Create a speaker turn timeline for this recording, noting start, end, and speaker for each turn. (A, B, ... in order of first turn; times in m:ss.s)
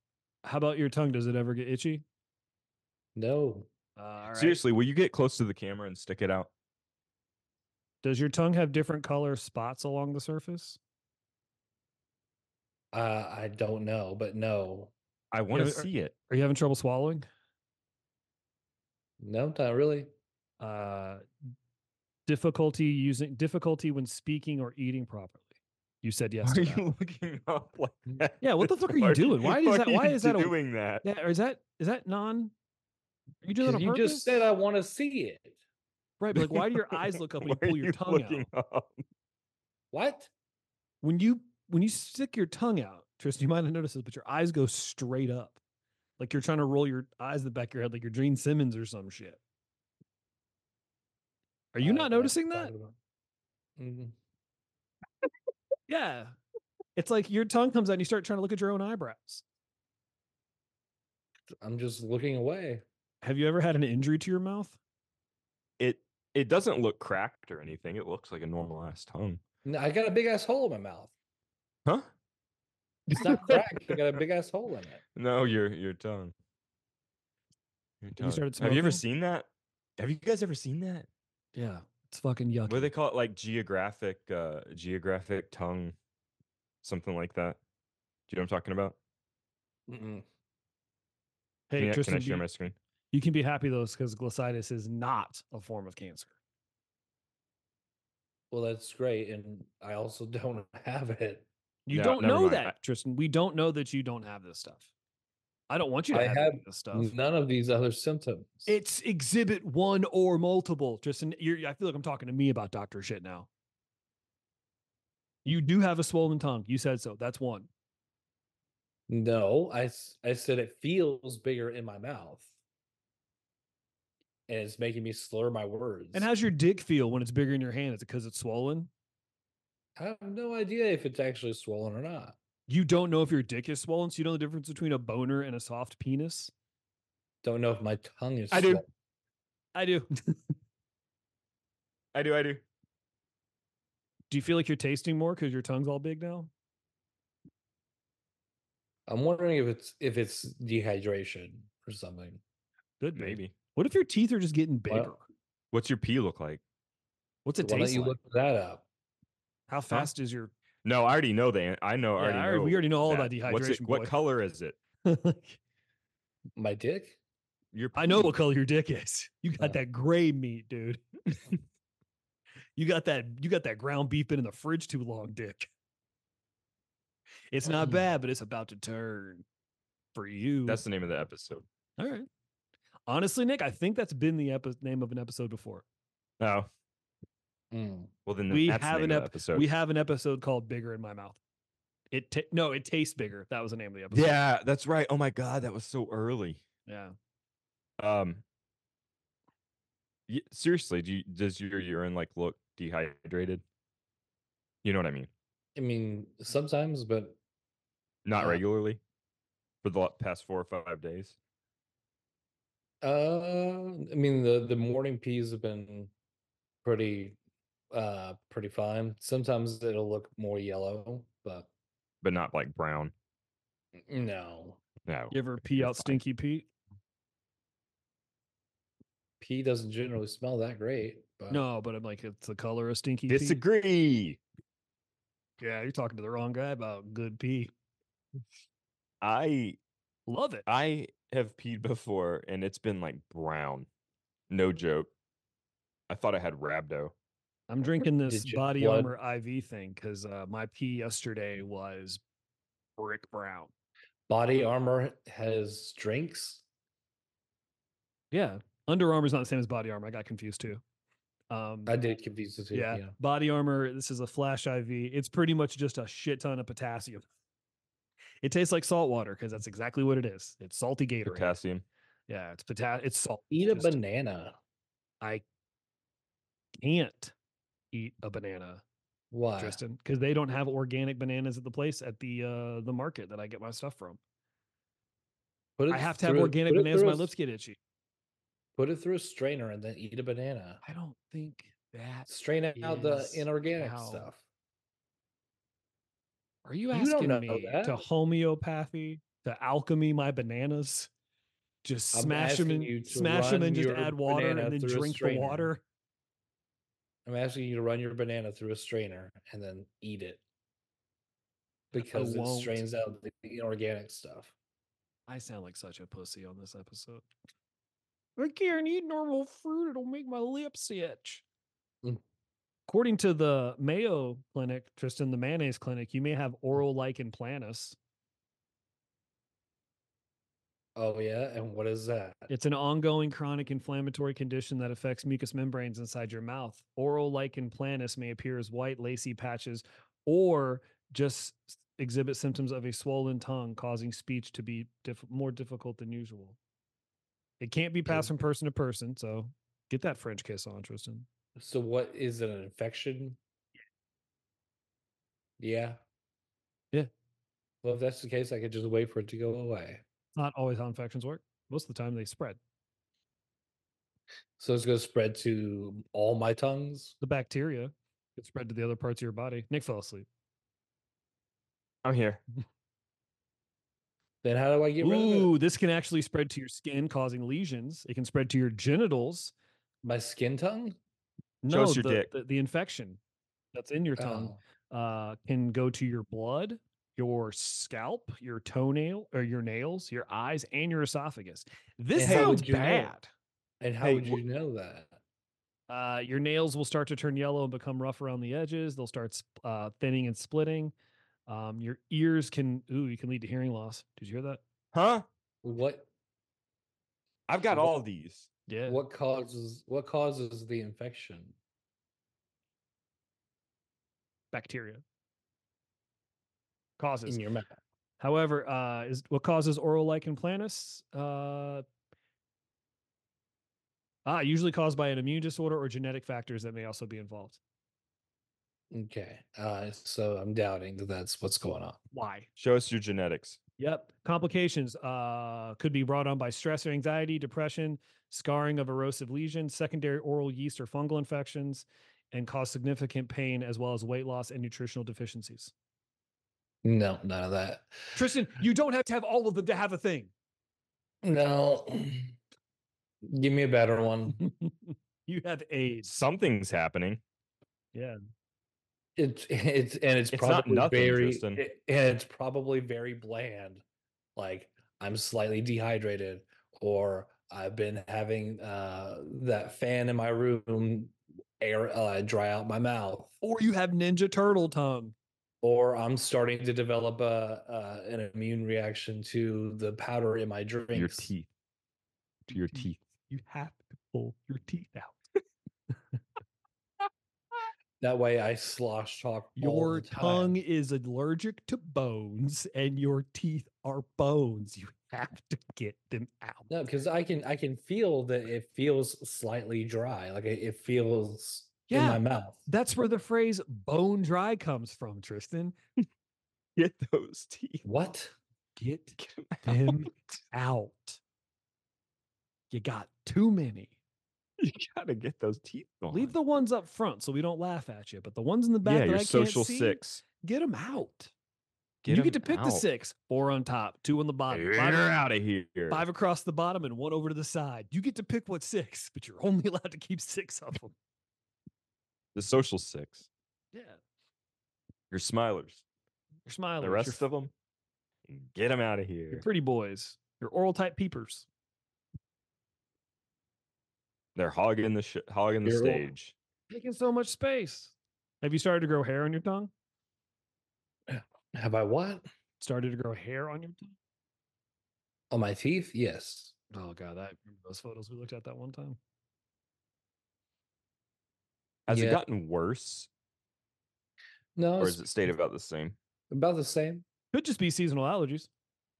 0:00.4-0:02.0 A
0:03.2-0:03.7 B
0:04.0-0:04.6 A
0:04.3-0:06.5 C
0:08.0-0:10.8 A
0:12.9-0:14.9 B
0:15.3-0:16.1 C
0:15.5-0:17.2 A
0:19.2-0:20.1 B
0:20.6-0:21.2 A
0:22.2-0:25.5 A
0:26.0-0:26.8 A
0:26.4-0:31.0 C
0:28.4-0:32.5 A
0:33.4-0:34.4 A
0:33.6-0:35.6 B
0:36.2-0:38.5 A
0:36.3-0:39.0 C
0:39.9-0:40.3 B
0:41.0-0:45.6 A
0:46.2-0:49.4 A
0:51.7-0:52.7 A
0:51.8-0:53.0 B
0:53.8-0:54.2 B
0:55.9-0:56.4 A
0:57.0-0:59.4 A
1:01.6-1:02.8 B
1:03.2-1:04.8 A
1:05.8-1:09.4 C
1:09.6-1:11.1 B
1:13.1-1:15.0 B
1:13.1-1:14.0 C
1:15.2-1:16.3 C
1:18.0-1:19.5 C
1:18.2-1:19.0 A
1:20.0-1:21.1 C
1:21.5-1:22.9 A
1:22.7-1:25.9 C
1:26.8-1:27.6 C
1:28.3-1:29.0 C
1:29.9-1:30.2 B
1:31.7-1:32.4 A
1:31.8-1:32.8 C
1:33.1-1:36.3 A
1:38.5-1:41.4 B
1:41.8-1:44.9 A
1:41.9-1:42.7 C
1:45.7-1:47.1 A
1:46.1-1:48.7 B
1:48.7-1:53.5 A
1:55.4-1:57.7 A
1:59.1-2:02.5 B
2:04.5-2:06.3 B
2:06.1-2:08.9 A
2:10.0-2:12.4 B
2:12.7-2:16.5 A
2:17.4-2:18.8 B
2:18.5-2:18.8 C
2:19.7-2:20.4 A
2:22.1-2:22.6 C
2:24.3-2:26.5 A
2:29.1-2:32.4 B
2:33.0-2:35.2 A
2:33.1-2:33.5 C
2:35.7-2:36.6 C
2:37.4-2:38.2 A
2:37.6-2:38.8 B
2:39.7-2:40.5 A
2:40.8-2:44.8 C
2:42.2-2:44.1 A
2:45.0-2:45.6 A
2:46.6-2:47.2 B
2:47.7-2:48.3 C
2:47.9-2:51.0 A
2:52.8-2:55.7 A
2:57.5-2:59.4 A
3:00.1-3:00.8 A
3:00.7-3:01.6 C
3:02.0-3:02.3 A
3:03.1-3:05.8 A
3:06.4-3:06.7 C
3:07.7-3:08.1 B
3:08.2-3:09.7 C
3:08.5-3:11.4 A
3:12.1-3:14.3 A
3:14.1-3:16.6 C
3:16.9-3:17.1 A
3:18.0-3:18.4 C
3:20.3-3:23.6 C
3:24.8-3:25.3 C
3:25.8-3:27.4 B
3:28.2-3:29.0 C
3:29.8-3:31.4 C
3:33.0-3:36.1 B
3:36.8-3:37.4 B
3:37.9-3:41.7 B
3:42.2-3:43.1 C
3:44.0-3:44.8 B
3:45.0-3:46.2 C
3:45.3-3:46.7 A
3:49.4-3:51.6 B
3:51.5-3:53.6 A
3:53.3-3:54.4 C
3:55.6-3:57.7 A
3:59.2-3:59.8 C
4:00.3-4:00.6 A
4:00.7-4:03.9 C
4:04.5-4:05.1 C
4:06.1-4:07.1 C
4:07.7-4:12.2 A
4:08.2-4:09.1 B
4:13.0-4:13.7 A
4:14.3-4:16.6 B
4:18.3-4:20.8 A
4:21.5-4:21.9 A
4:21.8-4:23.1 B
4:22.7-4:27.2 A
4:28.4-4:31.6 A
4:31.2-4:31.8 C
4:32.3-4:34.0 A
4:33.5-4:34.6 B
4:36.8-4:37.3 A
4:37.9-4:38.8 A
4:39.3-4:39.8 B
4:39.6-4:44.2 A
4:45.8-4:47.3 B
4:45.9-4:47.8 A
4:48.8-4:50.8 B
4:50.8-4:54.3 A
4:52.3-4:54.4 B
4:56.6-5:01.1 A
4:56.9-4:58.0 B
5:01.8-5:05.8 A
5:02.1-5:05.7 B
5:07.2-5:10.4 B
5:11.9-5:12.8 A
5:11.9-5:14.5 B
5:15.3-5:17.2 A
5:18.4-5:21.4 A
5:22.9-5:28.0 A
5:31.0-5:32.5 B
5:32.5-5:46.6 A
5:47.6-5:51.3 A
5:48.0-5:48.3 B
5:51.6-5:53.4 B
5:55.6-5:56.0 B
5:57.8-6:00.0 B
6:00.4-6:02.6 A
6:04.6-6:07.1 B
6:07.2-6:10.3 A
6:12.0-6:12.4 C
6:14.4-6:15.5 B
6:15.0-6:19.5 A
6:20.0-6:21.0 B
6:21.6-6:23.2 A
6:21.7-6:22.3 C
6:23.7-6:33.3 A
6:24.2-6:24.6 B
6:32.1-6:33.1 B
6:32.2-6:32.7 C
6:33.8-6:35.2 B
6:34.0-6:34.4 C
6:35.9-6:40.9 A
6:41.5-6:44.6 A
6:44.9-6:45.2 C
6:45.6-6:46.1 B
6:47.5-6:48.5 C
6:48.7-6:49.0 A
6:48.8-6:51.5 B
6:54.5-6:55.0 A
6:57.0-6:57.4 A
6:57.2-6:57.7 B
6:58.2-7:01.8 A
7:04.2-7:07.6 A
7:08.9-7:12.0 B
7:12.1-7:12.5 A
7:12.6-7:13.6 C
7:13.8-7:25.7 A
7:26.8-7:28.2 B
7:28.1-7:30.3 A
7:31.2-7:32.3 B
7:33.2-7:34.4 B
7:34.3-7:36.1 A
7:36.0-7:37.2 C
7:39.2-7:43.8 B
7:40.3-7:41.6 C
7:44.4-7:53.3 B
7:53.4-7:55.1 A
7:55.6-8:01.3 B
8:00.9-8:01.5 C
8:02.5-8:05.2 A
8:02.5-8:03.0 C
8:08.0-8:10.6 B
8:09.6-8:16.7 A
8:16.7-8:22.6 B
8:21.9-8:25.8 A
8:26.8-8:27.8 C
8:27.8-8:28.3 B
8:28.8-8:31.2 A
8:29.2-8:30.1 C
8:32.7-8:33.9 A
8:34.6-8:36.3 C
8:36.1-8:41.3 A
8:38.8-8:40.2 C
8:42.0-8:42.8 C
8:42.1-8:45.2 A
8:44.5-8:46.0 C
8:45.9-8:50.9 A
8:52.3-8:53.3 C
8:53.7-8:54.0 A
8:55.1-8:55.8 C
8:56.4-8:57.2 A
8:56.8-8:57.5 C
8:58.3-8:59.4 C
8:59.3-9:01.4 A
9:04.4-9:06.3 C
9:05.6-9:06.0 B
9:06.7-9:09.7 A
9:11.1-9:12.2 B
9:12.6-9:13.9 A
9:15.3-9:16.5 B
9:16.7-9:19.0 A
9:21.9-9:23.1 C
9:21.9-9:22.2 B
9:24.6-9:25.0 B
9:24.8-9:26.0 C
9:26.3-9:27.0 B
9:27.3-9:28.5 A